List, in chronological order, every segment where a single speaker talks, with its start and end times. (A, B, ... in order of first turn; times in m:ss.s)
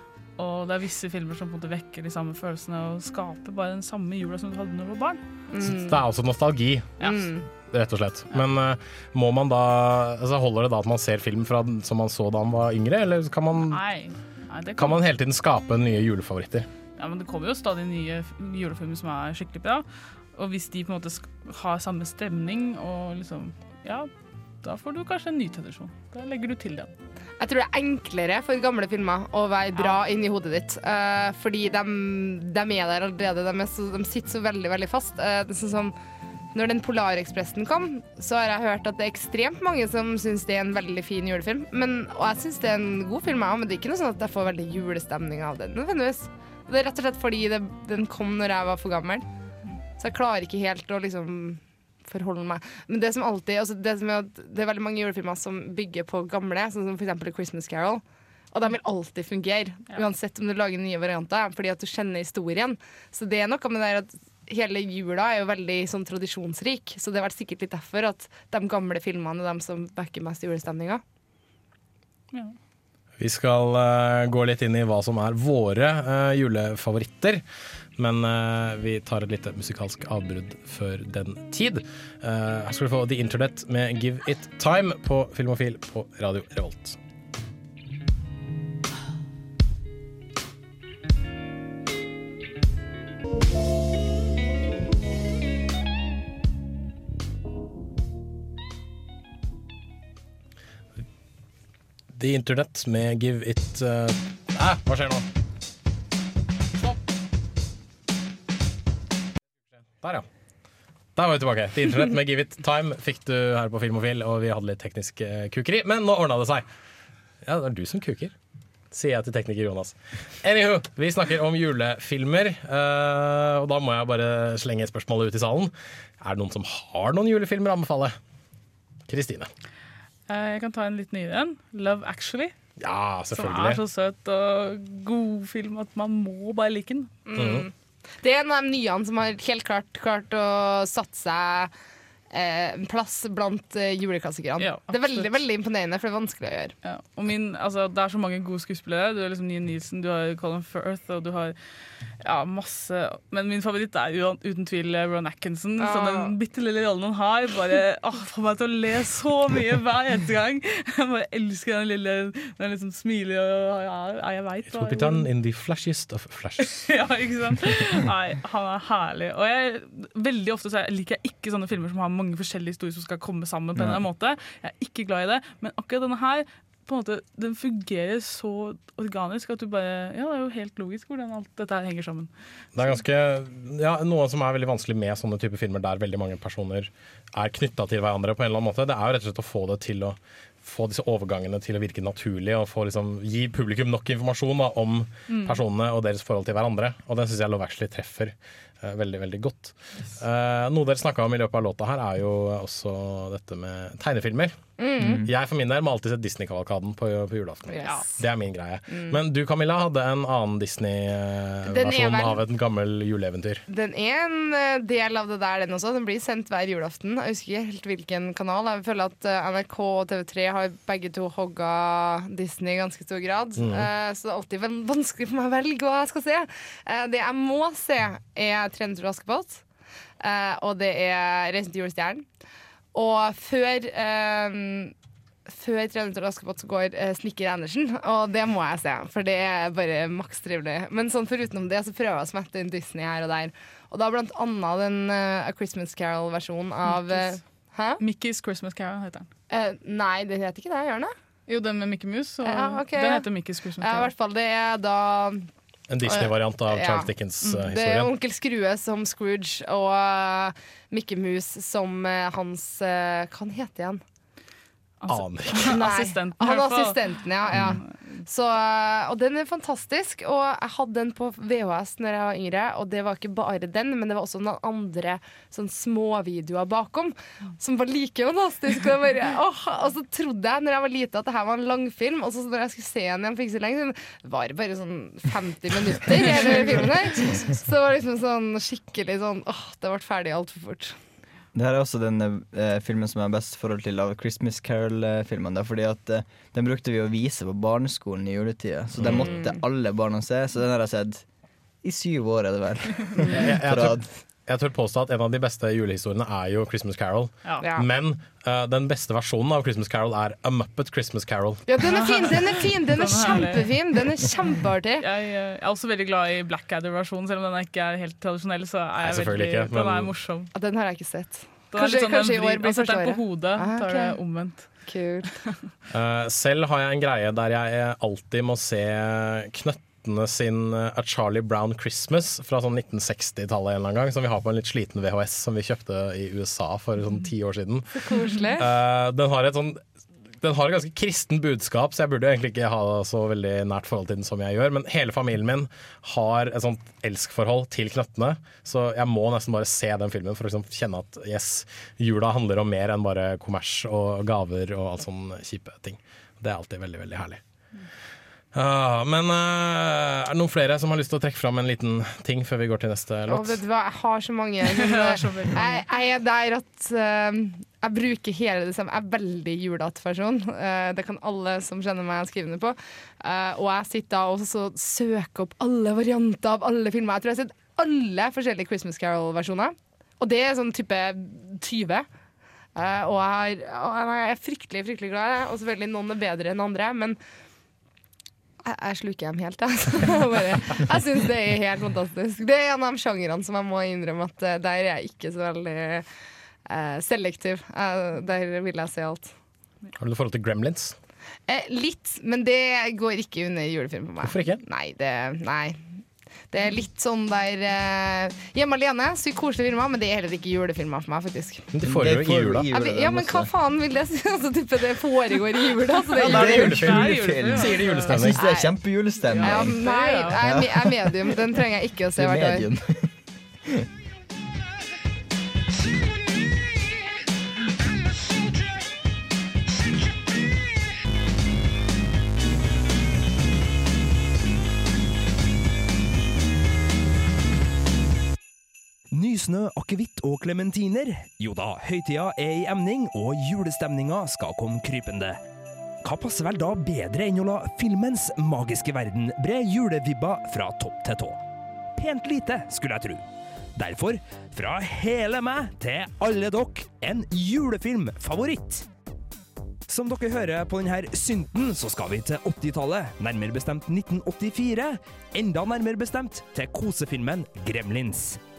0:00.4-0:05.2 A
0:05.5-0:06.0 B
0:05.6-0:06.9 C
0:07.0-0:07.2 A
0:07.0-0:07.5 B
0:07.7-0:13.8 C
0:13.6-0:15.0 A
0:14.8-0:16.7 C
0:17.0-0:24.1 A
0:24.6-0:26.9 A
0:27.4-0:35.9 B
0:29.7-0:30.0 A
0:36.5-0:49.2 B
0:50.0-1:11.0 B
1:13.2-1:17.4 C
1:18.0-1:27.0 C
1:42.1-1:45.2 C
1:50.0-1:50.2 C
1:51.2-1:56.6 C
1:57.4-1:58.3 C
1:58.9-2:08.2 C
2:09.1-2:09.5 C
2:10.3-2:12.5 A
2:12.8-2:13.8 C
2:13.3-2:17.1 A
2:17.3-2:21.7 B
2:17.3-2:17.7 C
2:22.3-2:26.7 B
2:24.6-2:25.4 A
2:26.8-2:31.6 A
2:32.2-2:45.3 A
2:35.8-2:36.3 B
2:44.7-2:46.8 C
2:46.7-3:03.0 A
3:02.7-3:24.5 C
3:15.3-3:15.6 A
3:24.8-3:25.2 B
3:25.1-3:33.6 C
3:27.7-3:28.2 B
3:28.9-3:29.2 B
3:31.6-3:32.4 B
3:33.7-3:49.6 B
3:43.6-3:43.9 C
3:50.2-3:52.2 B
3:52.9-3:54.9 B
3:55.5-4:08.0 B
4:06.8-4:07.4 A
4:08.0-4:09.3 A
4:09.5-4:11.1 B
4:11.5-4:14.1 A
4:12.4-4:13.2 B
4:13.8-4:15.5 B
4:15.9-4:18.1 C
4:16.0-4:24.0 B
4:25.0-4:28.2 A
4:25.1-4:25.9 C
4:25.6-4:51.0 B
4:46.2-4:47.4 A
4:51.5-5:01.2 D
4:59.0-4:59.6 B
5:01.8-5:04.1 D
5:03.4-5:11.6 C
5:07.6-5:07.9 B
5:11.7-5:15.0 B
5:11.8-5:13.7 A
5:15.0-5:20.5 A
5:19.0-5:20.1 C
5:20.5-5:24.2 B
5:21.7-5:24.7 A
5:24.8-5:25.3 B
5:25.9-5:39.8 C
5:38.0-5:38.7 B
5:40.4-5:57.4 C
5:58.5-6:03.6 C
6:03.3-6:22.0 B
6:04.6-6:05.8 A
6:22.8-6:27.2 B
6:28.6-6:36.0 B
6:36.7-6:39.3 B
6:40.0-6:41.0 C
6:41.5-6:45.8 B
6:44.2-6:44.6 C
6:46.5-6:51.6 B
6:51.7-6:52.7 C
6:51.8-6:53.5 D
6:52.7-6:56.8 B
6:56.2-6:58.2 A
6:56.2-6:59.7 D
6:56.2-6:58.4 C
6:58.3-6:58.7 B
6:59.3-7:00.4 A
6:59.4-7:02.7 B
7:00.4-7:01.3 D
7:02.2-7:03.1 D
7:19.1-7:25.4 E
7:26.0-7:31.4 E
7:32.0-7:33.2 E
7:33.8-7:38.8 E
7:39.9-7:48.4 E